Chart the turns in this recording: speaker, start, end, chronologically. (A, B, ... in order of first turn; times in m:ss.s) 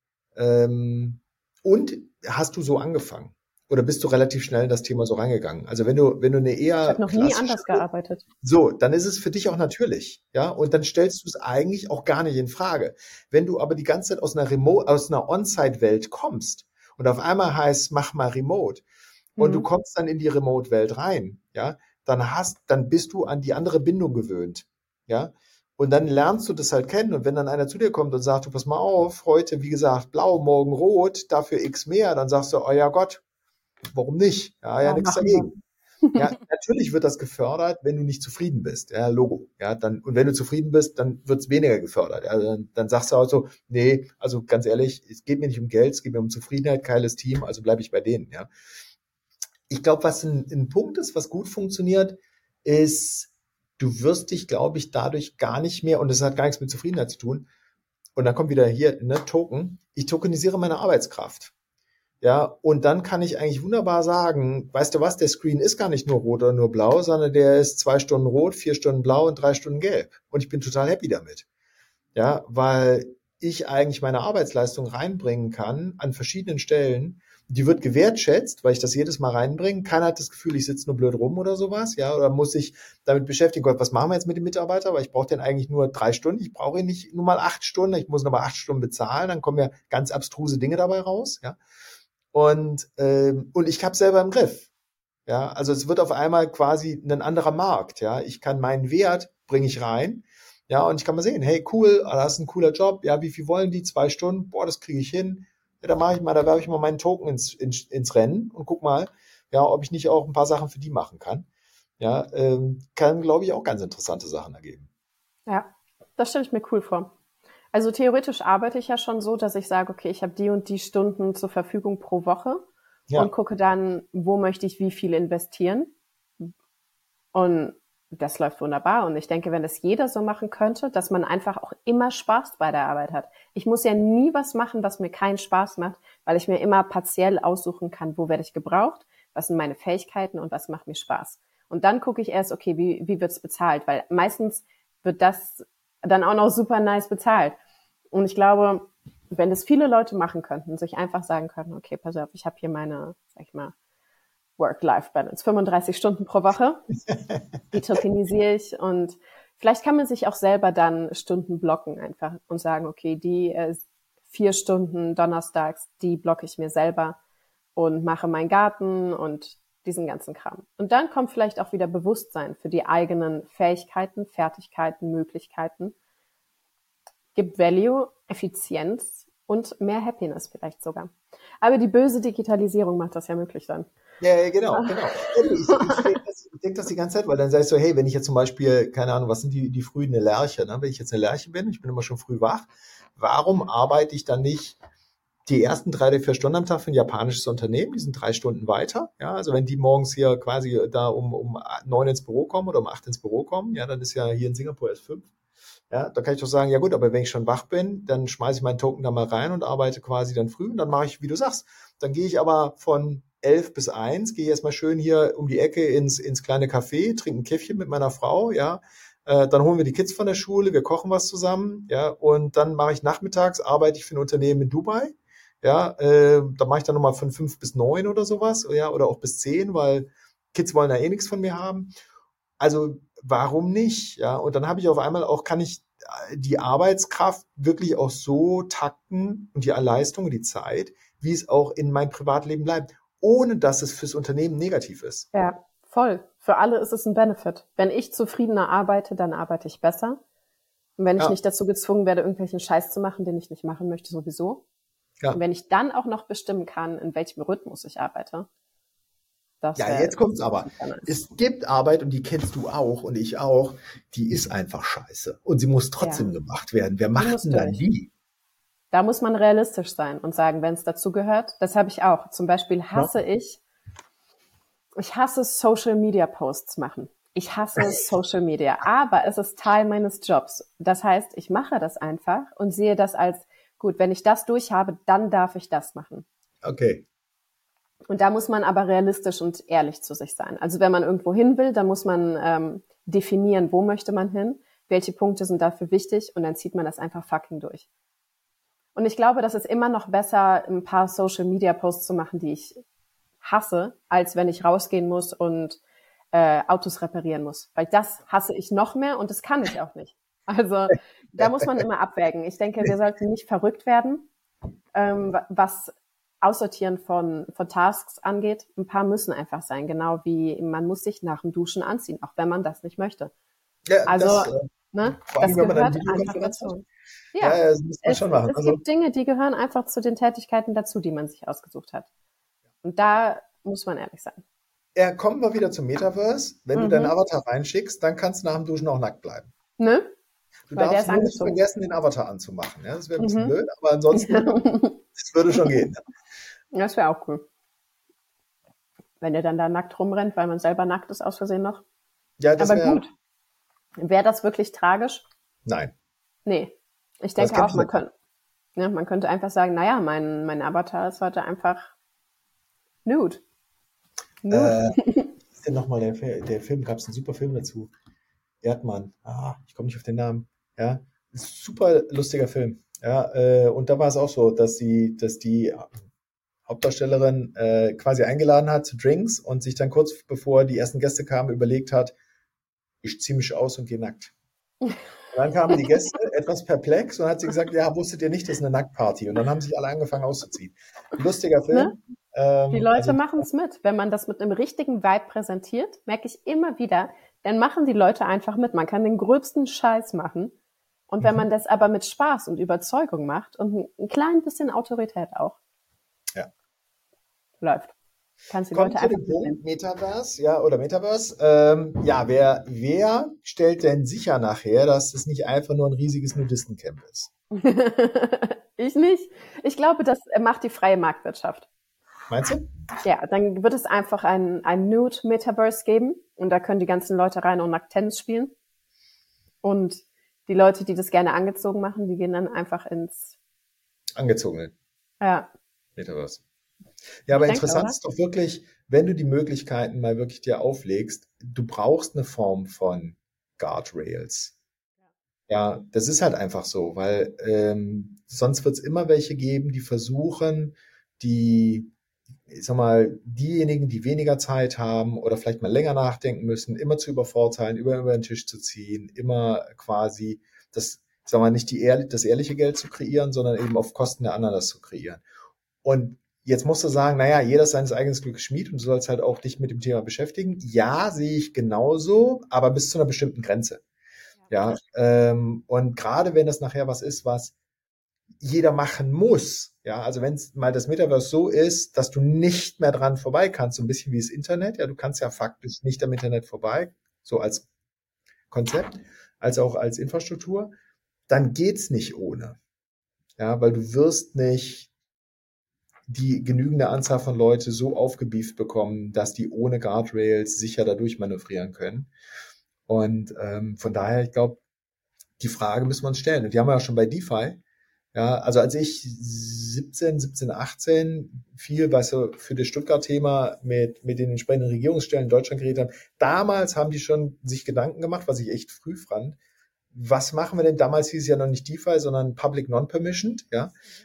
0:00.4-0:07.8 A
0:06.8-0:08.2 B
0:08.4-0:18.8 A
0:19.4-0:19.7 B
0:19.4-0:33.2 A
0:33.9-0:35.5 A
0:34.8-0:35.5 B
0:36.1-0:36.4 B
0:36.2-0:48.5 A
0:49.7-0:57.5 A
0:58.2-1:01.5 A
1:02.2-1:11.4 A
1:12.2-1:31.6 A
1:32.3-1:34.7 A
1:35.3-1:51.5 A
1:52.0-1:54.9 A
1:55.5-1:57.1 B
1:57.7-2:02.6 B
2:03.2-2:06.5 B
2:07.3-2:27.6 B
2:28.1-2:33.7 B
2:34.6-2:36.8 B
2:37.1-2:37.4 A
2:37.7-2:47.2 B
2:47.8-2:56.0 B
2:57.4-3:03.9 B
3:04.2-3:14.8 A
3:04.7-3:06.1 B
3:15.5-3:25.3 A
3:25.9-3:51.9 A
3:52.6-4:05.3 A
4:05.3-4:10.2 B
4:11.0-4:14.6 B
4:15.3-4:18.5 B
4:19.6-4:20.2 B
4:19.8-4:28.1 A
4:20.7-4:21.1 B
4:26.0-4:26.3 B
4:27.2-4:27.8 B
4:28.9-4:33.6 B
4:35.0-4:46.3 B
4:46.6-4:47.0 A
4:48.1-4:57.9 B
4:59.0-5:02.8 B
5:03.4-5:05.8 B
5:06.3-5:14.3 B
5:15.0-5:23.3 B
5:23.9-5:26.7 A
5:24.1-5:32.1 B
5:27.4-5:28.8 A
5:32.8-5:34.4 B
5:35.0-5:39.5 A
5:36.8-5:37.1 B
5:39.8-5:40.1 B
5:40.7-5:44.6 A
5:40.8-5:41.6 B
5:43.2-5:43.6 B
5:44.1-5:45.0 B
5:45.2-5:46.0 A
5:46.7-5:47.4 B
5:49.2-5:51.8 B
5:52.4-5:53.0 A
5:52.6-5:53.1 B
5:54.0-5:55.2 B
5:55.7-5:55.9 A
5:56.5-5:58.1 B
5:57.4-5:58.0 A
5:58.8-6:01.9 B
6:03.0-6:03.4 B
6:04.4-6:05.3 B
6:04.5-6:05.0 A
6:05.6-6:07.9 A
6:08.6-6:15.9 A
6:16.7-6:22.1 A
6:23.0-6:24.3 A
6:25.3-6:33.4 A
6:32.7-6:40.5 B
6:41.1-6:45.6 B
6:47.6-6:48.0 B
6:48.5-6:49.6 B
6:48.7-6:57.3 A
6:57.5-7:01.7 B
7:02.3-7:02.7 A
7:03.0-7:08.5 B
7:09.6-7:13.4 B
7:14.2-7:14.7 A
7:15.2-7:15.5 B
7:16.0-7:16.4 A
7:17.3-7:24.5 A
7:17.3-7:18.0 B
7:25.5-7:31.9 A
7:32.5-7:45.2 A
7:45.8-7:53.8 A
7:54.5-7:57.6 A
7:58.4-8:07.7 A
8:08.5-8:10.7 A
8:11.3-8:12.6 A
8:13.4-8:14.9 A
8:16.1-8:22.1 A
8:22.9-8:24.6 A
8:25.4-8:27.6 A
8:28.1-8:39.4 A
8:39.9-8:43.8 A